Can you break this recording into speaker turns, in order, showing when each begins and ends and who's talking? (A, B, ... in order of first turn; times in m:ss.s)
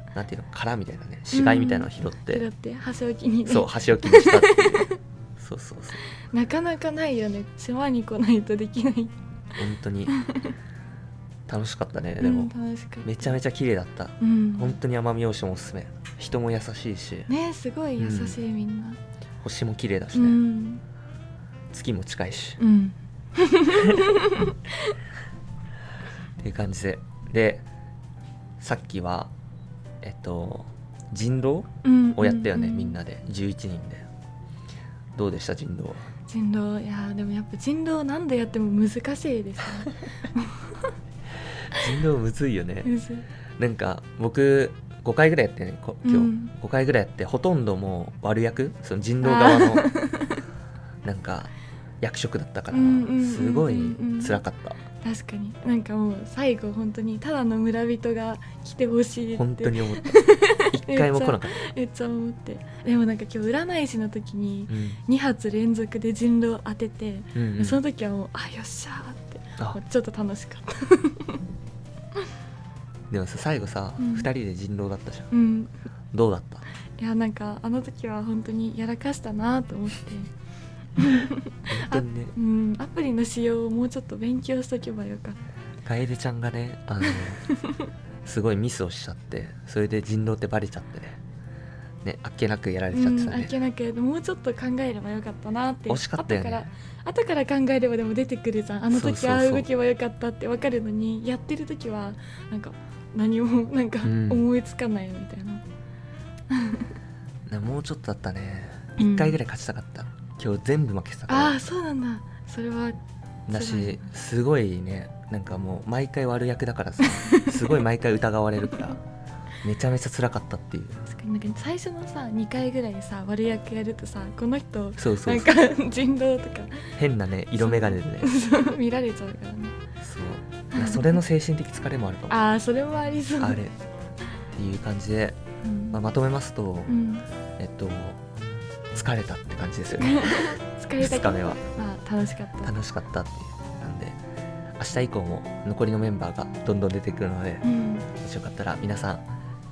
0:00.2-0:02.4 A
0:01.3-0:05.0 B
0:03.5-0:06.0 A
0:06.2-0:09.2 B
0:09.6-0:10.1 A
0:10.1-0:10.5 B
0:11.5-0:12.5 A
0:12.2-0:13.4 B
0:13.0-0:17.3 A
0:14.2-0:14.8 B
0:17.3-0:19.0 B
0:18.0-0:18.4 A
0:19.4-0:20.4 A
0:20.1-0:20.8 B
0:21.7-0:22.6 A
0:22.6-0:24.6 B
0:26.4-0:27.6 A
0:28.6-0:29.3 A
0:30.0-0:34.1 A
0:31.8-0:33.0 B
0:35.2-0:36.1 A
0:36.3-0:40.9 B
0:41.7-0:42.9 A
0:42.8-0:43.3 B
0:43.6-0:49.9 A
0:46.0-0:46.5 B
0:49.2-0:50.4 B
0:51.0-0:54.8 A
0:52.7-0:54.4 B
0:55.0-1:11.4 B
0:59.3-1:00.1 A
1:00.7-1:01.6 A
1:04.7-1:05.0 A
1:07.4-1:07.8 A
1:13.1-1:15.3 A
1:14.0-1:14.3 B
1:15.3-1:15.7 B
1:16.1-1:16.6 A
1:17.0-1:20.3 B
1:21.0-1:25.4 B
1:21.7-1:22.3 A
1:25.9-1:27.4 A
1:28.2-1:31.2 A
1:32.0-1:33.5 A
1:32.9-1:45.6 B
1:35.9-1:36.7 A
1:38.9-1:39.7 A
1:44.0-1:44.5 A
1:46.5-1:46.9 B
1:47.5-1:51.6 A
1:49.0-1:49.4 B
1:51.3-1:53.0 B
1:53.5-1:59.0 A
1:53.5-1:54.0 B
1:57.0-1:57.8 B
1:59.6-2:01.0 A
2:01.1-2:06.9 B
2:05.0-2:05.5 A
2:07.0-2:08.3 A
2:07.6-2:09.8 B
2:10.0-2:12.4 A
2:10.7-2:11.2 B
2:12.3-2:13.6 B
2:13.4-2:13.7 A
2:14.6-2:15.4 A
2:15.6-2:16.0 B
2:15.9-2:16.9 A
2:16.9-2:17.2 B
2:17.6-2:18.2 A
2:18.9-2:21.6 A
2:20.0-2:22.7 B
2:22.6-2:24.2 A
2:24.8-2:29.3 A
2:27.6-2:28.1 B